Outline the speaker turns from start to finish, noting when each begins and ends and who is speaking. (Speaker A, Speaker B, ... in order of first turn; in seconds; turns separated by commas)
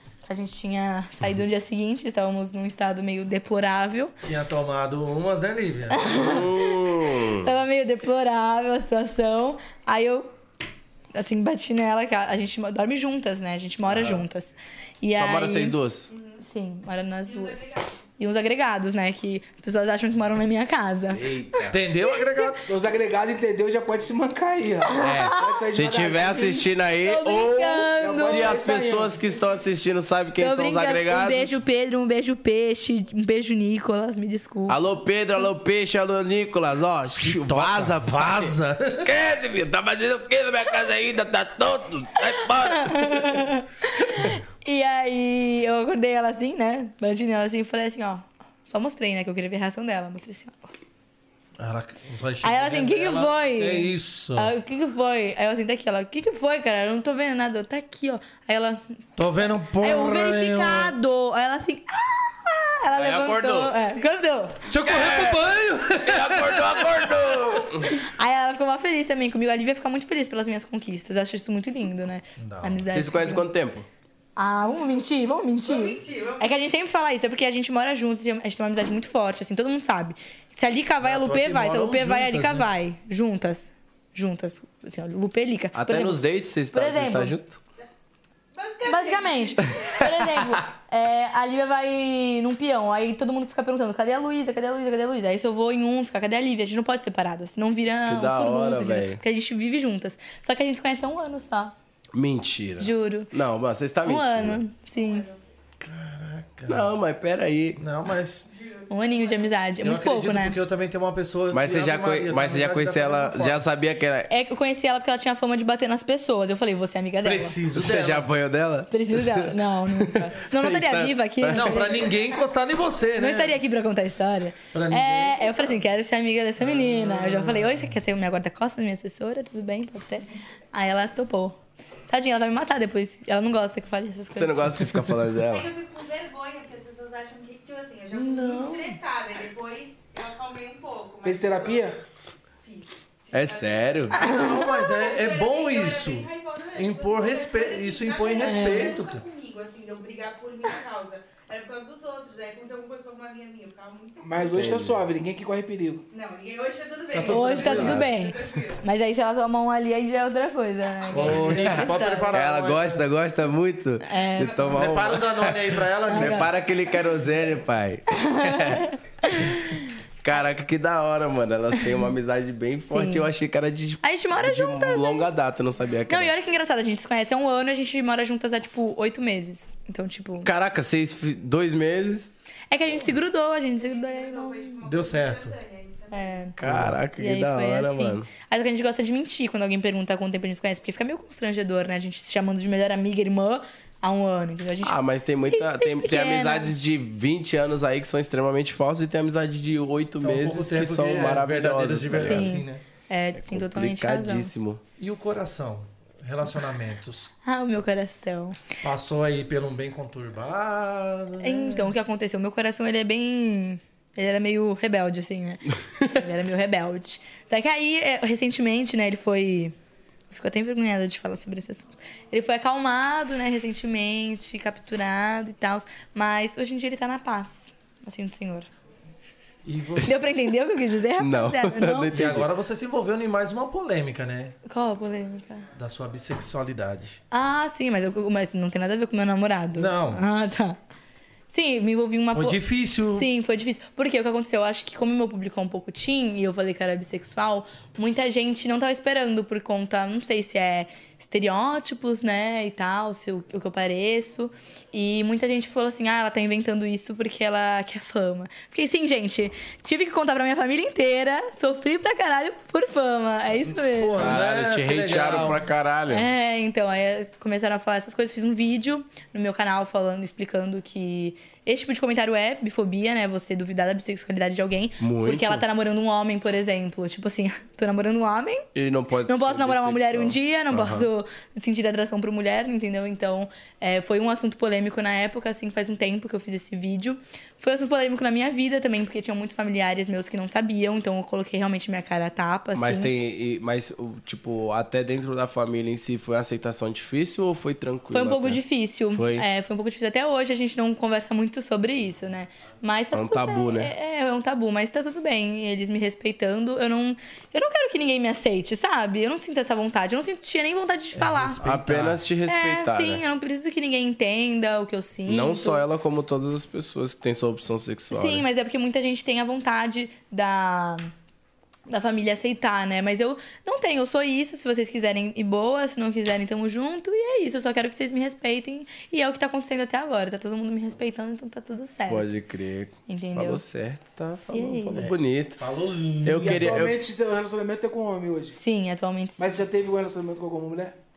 Speaker A: 0.2-4.1, Speaker B: 4.2-6.1, Speaker A: 5.9-10.3, Speaker C: 6.1-7.5, Speaker A: 11.1-15.8, Speaker B: 13.9-14.2, Speaker C: 15.1-16.1, Speaker D: 16.1-16.4, Speaker A: 16.4-21.6, Speaker D: 17.2-18.0, Speaker C: 21.1-21.8, Speaker B: 21.7-22.7, Speaker E: 22.6-26.6, Speaker A: 24.8-28.7, Speaker C: 25.0-31.6, Speaker E: 28.0-29.2, Speaker A: 30.4-34.8, Speaker C: 34.7-43.4, Speaker B: 37.1-39.1, Speaker A: 42.4-50.7, Speaker B: 51.6-54.5, Speaker A: 52.4-58.8, Speaker B: 59.2-60.9, Speaker A: 59.8-64.7, Speaker C: 62.9-63.8, Speaker B: 64.7-67.6, Speaker C: 64.8-68.0, Speaker A: 68.0-73.5, Speaker B: 72.4-72.8, Speaker C: 72.9-73.9, Speaker A: 74.3-87.3, Speaker D: 75.6-76.5, Speaker B: 81.0-82.7, Speaker C: 85.7-87.6, Speaker D: 88.5-90.0, Speaker A: 88.8-101.7, Speaker C: 98.1-99.2, Speaker C: 102.1-104.6, Speaker A: 102.8-103.3, Speaker A: 104.0-105.2, Speaker D: 104.9-105.4, Speaker B: 105.8-106.9, Speaker C: 106.7-107.8, Speaker B: 107.8-108.5, Speaker D: 108.5-109.5, Speaker A: 108.9-110.6, Speaker B: 109.8-113.6, Speaker C: 111.5-114.3, Speaker A: 114.3-117.6, Speaker B: 117.2-118.3, Speaker C: 117.7-121.8, Speaker A: 118.9-122.3, Speaker B: 121.5-123.6, Speaker A: 123.2-134.9, Speaker B: 124.7-125.8, Speaker B: 126.6-127.9, Speaker C: 134.3-135.7, Speaker D: 135.4-141.9, Speaker B: 138.1-139.0, Speaker E: 141.2-141.9, Speaker D: 142.6-154.5, Speaker C: 143.3-144.2, Speaker A: 144.2-144.7, Speaker B: 144.2-149.2, Speaker A: 148.4-148.9, Speaker E: 154.2-156.0, Speaker C: 154.4-155.0, Speaker D: 156.1-158.8, Speaker B: 157.1-158.1, Speaker A: 157.3-162.3, Speaker B: 161.1-163.0, Speaker C: 161.3-168.9, Speaker A: 164.0-164.9, Speaker B: 164.7-166.6, Speaker A: 166.1-166.5, Speaker A: 168.1-169.9, Speaker C: 170.2-176.3, Speaker A: 172.9-173.3, Speaker A: 174.0-175.3, Speaker A: 176.1-180.5, Speaker C: 180.4-182.3, Speaker A: 182.7-184.8, Speaker D: 183.7-186.6, Speaker B: 184.8-185.6, Speaker A: 186.1-196.8, Speaker C: 186.6-188.3, Speaker B: 186.6-186.9, Speaker C: 194.8-202.6, Speaker B: 200.2-202.8, Speaker A: 202.2-204.5, Speaker C: 203.3-204.8, Speaker B: 205.0-207.3, Speaker A: 207.4-208.6, Speaker B: 208.8-211.9, Speaker A: 211.4-219.7, Speaker A: 220.3-228.7, Speaker B: 229.6-230.2, Speaker A: 230.0-232.2, Speaker C: 231.2-232.5, Speaker B: 232.1-234.6, Speaker A: 234.6-235.7, Speaker B: 235.8-237.2, Speaker A: 237.3-240.8, Speaker B: 239.7-240.2, Speaker A: 241.5-242.6, Speaker B: 242.3-243.3, Speaker A: 243.1-264.4, Speaker B: 263.7-265.7, Speaker C: 264.2-266.3, Speaker A: 266.1-278.7, Speaker C: 275.0-275.6, Speaker C: 278.7-281.1, Speaker A: 279.2-293.1, Speaker C: 292.7-299.5, Speaker A: 298.1-311.6, Speaker C: 303.1-303.9, Speaker B: 311.1-312.2, Speaker C: 311.6-313.2, Speaker A: 312.4-315.8, Speaker C: 315.3-318.4, Speaker A: 318.1-321.1, Speaker A: 321.9-332.3, Speaker C: 332.1-335.6, Speaker A: 333.1-333.6, Speaker A: 334.5-335.1, Speaker B: 335.6-336.9, Speaker C: 336.2-337.0, Speaker E: 336.3-338.6, Speaker A: 338.6-339.4, Speaker E: 339.4-340.9